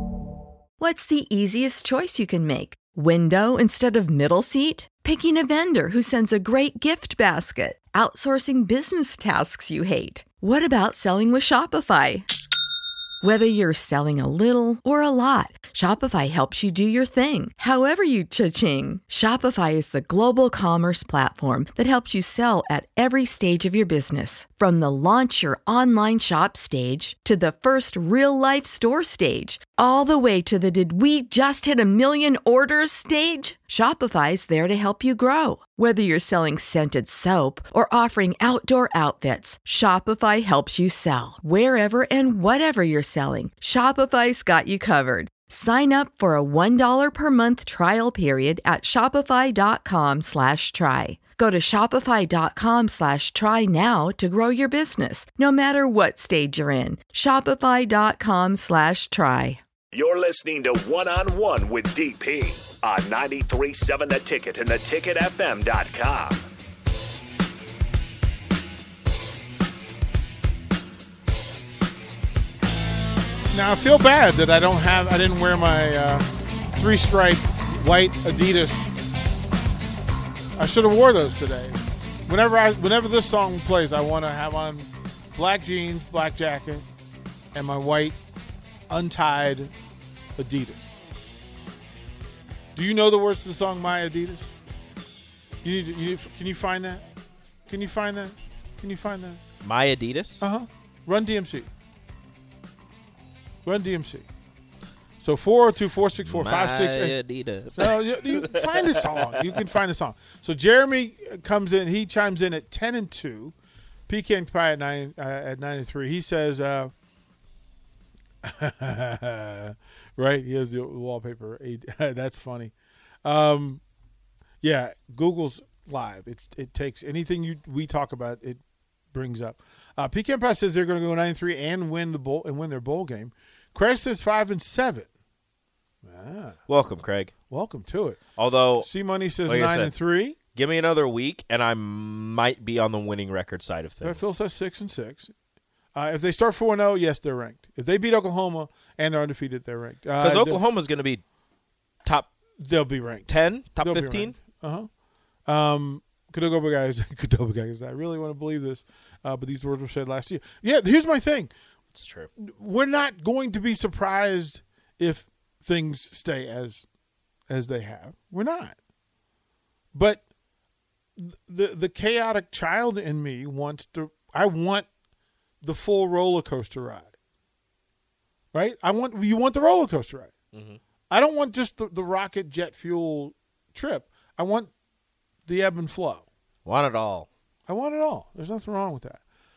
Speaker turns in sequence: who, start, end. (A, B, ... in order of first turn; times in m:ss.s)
0:00.8-0:12.3 A
0:13.2-0:59.6 A
0:59.9-1:06.4 B
1:13.5-1:18.9 C
1:20.6-1:26.9 C
1:27.5-1:28.2 C
1:28.9-1:29.7 C
1:30.4-1:31.0 C
1:32.8-1:34.5 C
1:35.6-1:37.1 C
1:37.7-1:39.4 C
1:39.6-1:40.5 D
1:40.4-1:41.7 C
1:43.6-1:44.3 C
1:45.2-1:47.2 C
1:46.2-1:49.7 D
1:47.8-1:53.5 C
1:54.1-1:56.9 C
1:58.4-2:02.7 C
2:03.2-2:03.8 C
2:04.6-2:08.6 C
2:09.1-2:15.1 C
2:16.0-2:16.6 C
2:16.7-2:17.3 D
2:17.5-2:20.4 C
2:18.4-2:20.0 D
2:20.6-2:24.4 D
2:24.0-2:25.3 C
2:26.0-2:30.6 C
2:30.2-2:31.2 D
2:32.0-2:32.3 D
2:32.6-2:34.9 C
2:33.3-2:34.4 D
2:35.5-2:41.5 C
2:41.9-2:42.3 D
2:42.4-2:46.9 C
2:47.5-2:48.8 C
2:49.9-2:50.2 C
2:51.2-2:54.9 C
2:55.6-2:57.1 C
2:58.5-3:00.3 C
3:00.5-3:00.8 D
3:01.1-3:04.7 C
3:05.5-3:06.3 C
3:06.6-3:07.3 D
3:07.7-3:09.2 C